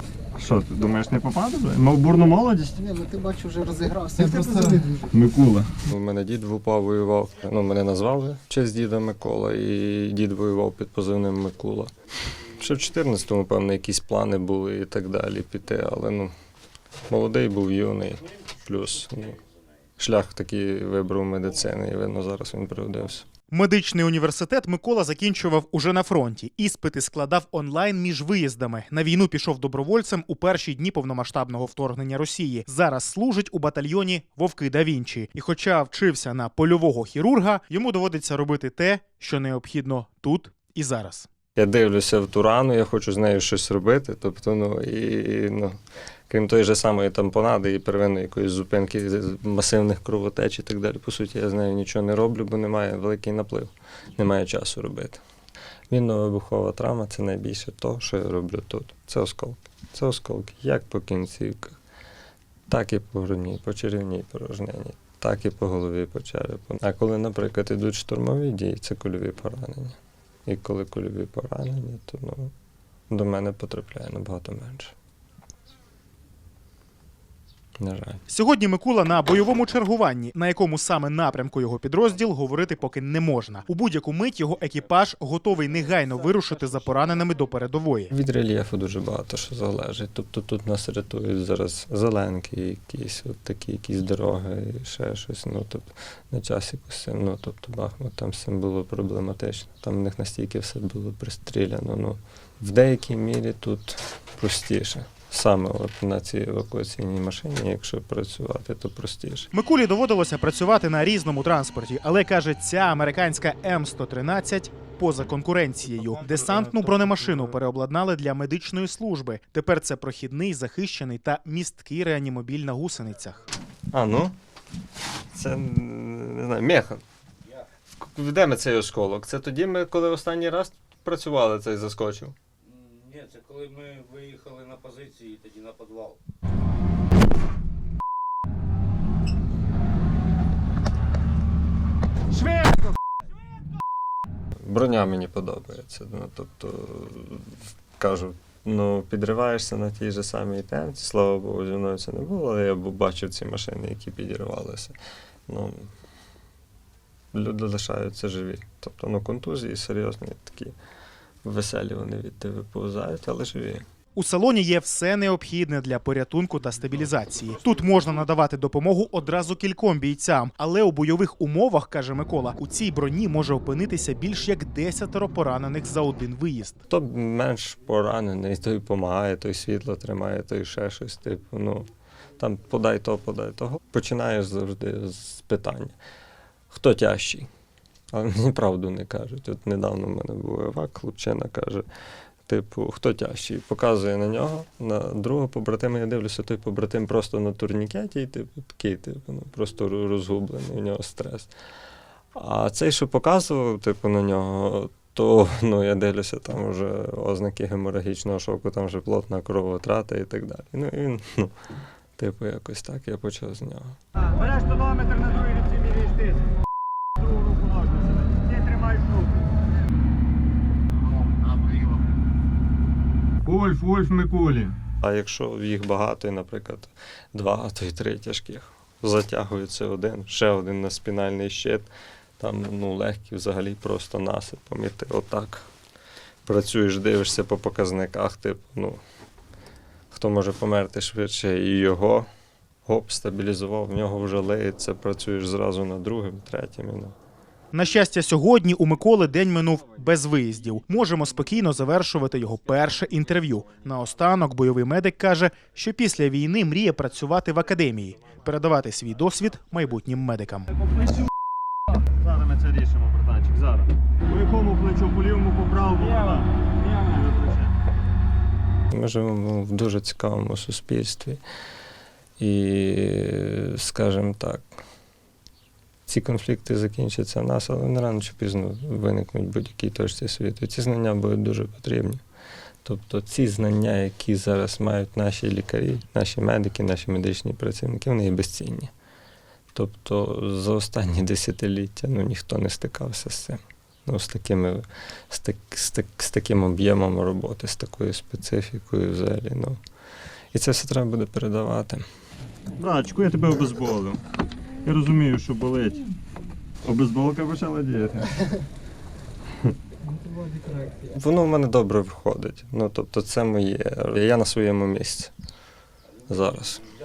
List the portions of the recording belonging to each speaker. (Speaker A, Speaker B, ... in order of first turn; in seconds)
Speaker A: 0.3-2.9, 4.2-11.9, 12.5-16.3, 17.1-19.4, 20.0-23.3, 41.5-45.8, 46.3-55.2, 55.9-61.8, 62.7-72.5, 73.1-74.9, 77.8-78.2, 88.1-109.5, 123.9-124.3, 125.3-127.0, 128.0-132.3, 144.6-154.9, 155.5-155.9, 157.3-160.7, 161.4-163.8, 176.9-181.9, 182.4-186.0, 186.7-187.5, 188.1-191.8, 192.5-201.5, 202.3-211.5, 212.2-214.0, 223.4-235.7, 236.4-239.0, 240.1-242.3, 242.8-247.1, 262.2-267.7, 268.9-271.4, 272.4-274.6, 276.1-282.2, 282.8-288.9, 289.7-299.8, 300.5-302.0, 302.8-304.2, 304.8-306.1, 306.8-308.4, 311.0-315.3, 316.3-316.9
Speaker B: 2.8-5.0
Speaker C: 23.5-41.3, 78.3-88.1, 109.5-123.5, 164.1-176.8, 247.7-260.7
Speaker D: 132.7-136.2
Speaker E: 214.2-216.4, 217.2-219.5, 221.4-221.9, 223.6-224.7, 264.5-267.6